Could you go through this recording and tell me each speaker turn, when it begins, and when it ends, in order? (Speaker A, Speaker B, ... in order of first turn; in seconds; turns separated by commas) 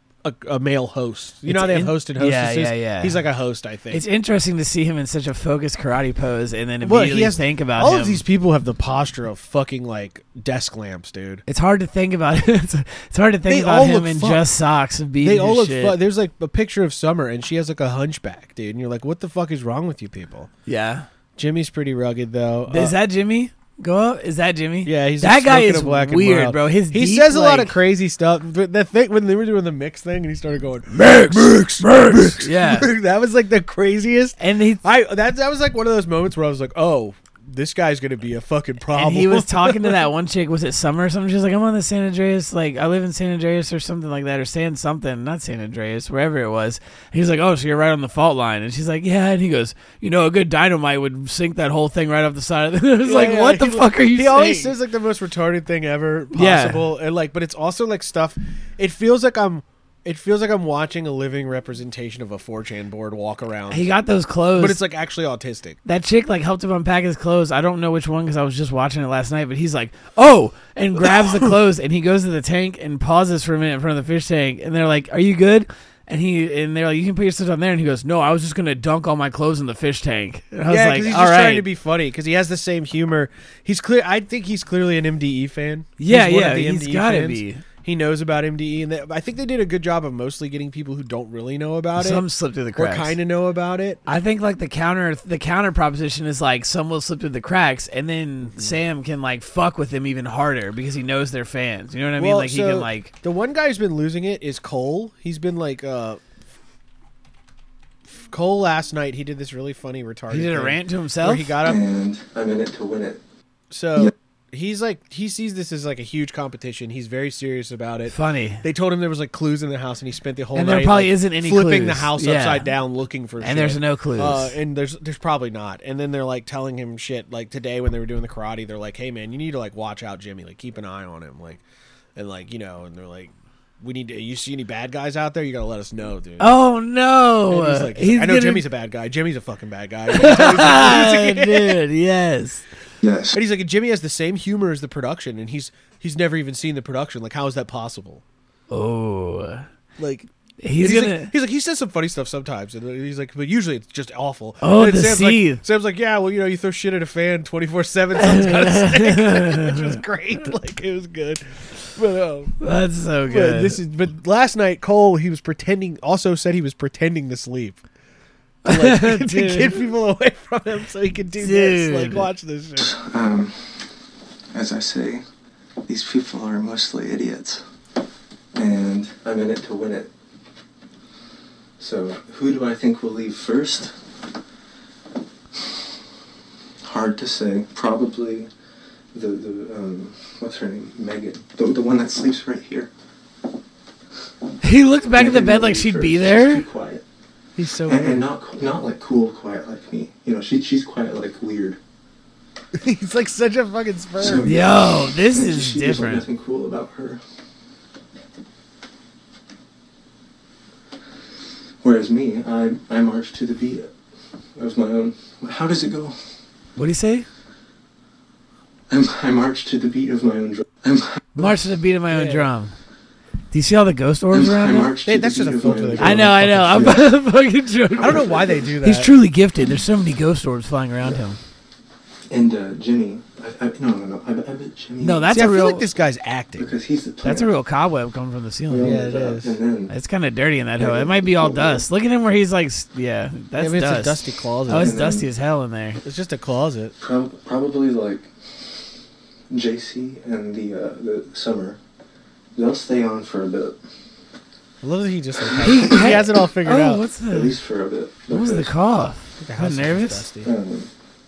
Speaker A: 0.2-4.0, Speaker B: 1.5-3.2, Speaker B: 3.9-8.2, Speaker A: 6.8-11.4, Speaker B: 11.5-16.0, Speaker A: 13.5-14.4, Speaker A: 15.2-20.5, Speaker B: 20.6-21.1, Speaker A: 21.4-23.0, Speaker B: 22.7-27.8, Speaker A: 24.8-40.1, Speaker B: 30.9-32.9, Speaker B: 34.4-34.8, Speaker B: 38.9-54.7, Speaker A: 53.0-63.9, Speaker B: 56.3-56.9, Speaker B: 63.7-64.8, Speaker A: 64.5-65.8, Speaker B: 65.8-81.7, Speaker A: 80.7-94.0, Speaker B: 86.0-87.6, Speaker B: 92.0-93.2, Speaker B: 94.0-103.1, Speaker A: 102.2-106.2, Speaker A: 108.1-111.8, Speaker B: 110.3-111.5, Speaker C: 111.6-113.2, Speaker A: 113.7-131.6, Speaker B: 118.1-118.6, Speaker B: 120.5-122.7, Speaker B: 123.4-124.5, Speaker A: 132.1-136.5, Speaker B: 136.4-138.6, Speaker A: 137.5-141.8, Speaker B: 140.1-142.7, Speaker C: 143.0-143.3, Speaker A: 143.3-148.2, Speaker B: 148.7-149.7, Speaker A: 150.0-162.6, Speaker B: 150.6-151.3, Speaker B: 154.6-155.6, Speaker B: 158.2-159.9, Speaker B: 162.6-163.8, Speaker A: 163.3-167.8, Speaker B: 168.6-169.8, Speaker A: 168.6-172.9, Speaker B: 171.3-172.3, Speaker C: 172.8-173.9, Speaker C: 174.5-175.2, Speaker C: 175.8-177.6, Speaker C: 178.5-180.1, Speaker C: 181.8-184.0, Speaker C: 186.8-188.5, Speaker C: 189.1-192.9, Speaker B: 194.6-196.6, Speaker C: 195.1-197.0, Speaker A: 197.6-198.3, Speaker C: 197.8-201.8, Speaker A: 202.7-204.5, Speaker C: 204.2-207.2, Speaker B: 204.4-206.2, Speaker C: 211.8-213.9, Speaker C: 214.6-216.2, Speaker B: 216.8-217.3, Speaker C: 218.9-221.2, Speaker B: 221.3-222.7, Speaker A: 222.1-222.4, Speaker B: 223.5-224.9, Speaker C: 224.3-227.1, Speaker A: 225.0-227.0, Speaker B: 226.0-231.4, Speaker C: 228.0-228.5, Speaker A: 228.0-229.1, Speaker C: 232.3-235.3, Speaker B: 235.0-235.8, Speaker A: 235.3-236.7, Speaker C: 236.6-237.5, Speaker B: 237.2-239.0, Speaker C: 238.7-239.9, Speaker A: 238.8-239.6, Speaker B: 239.9-246.0, Speaker C: 240.8-241.8, Speaker A: 243.6-245.0, Speaker C: 244.7-245.3, Speaker A: 246.0-246.9, Speaker C: 247.0-248.5, Speaker C: 249.5-251.8, Speaker C: 252.5-253.8, Speaker A: 254.8-257.1, Speaker B: 255.6-257.6, Speaker C: 257.2-258.8, Speaker B: 258.3-260.3, Speaker A: 259.4-260.5, Speaker C: 260.4-260.9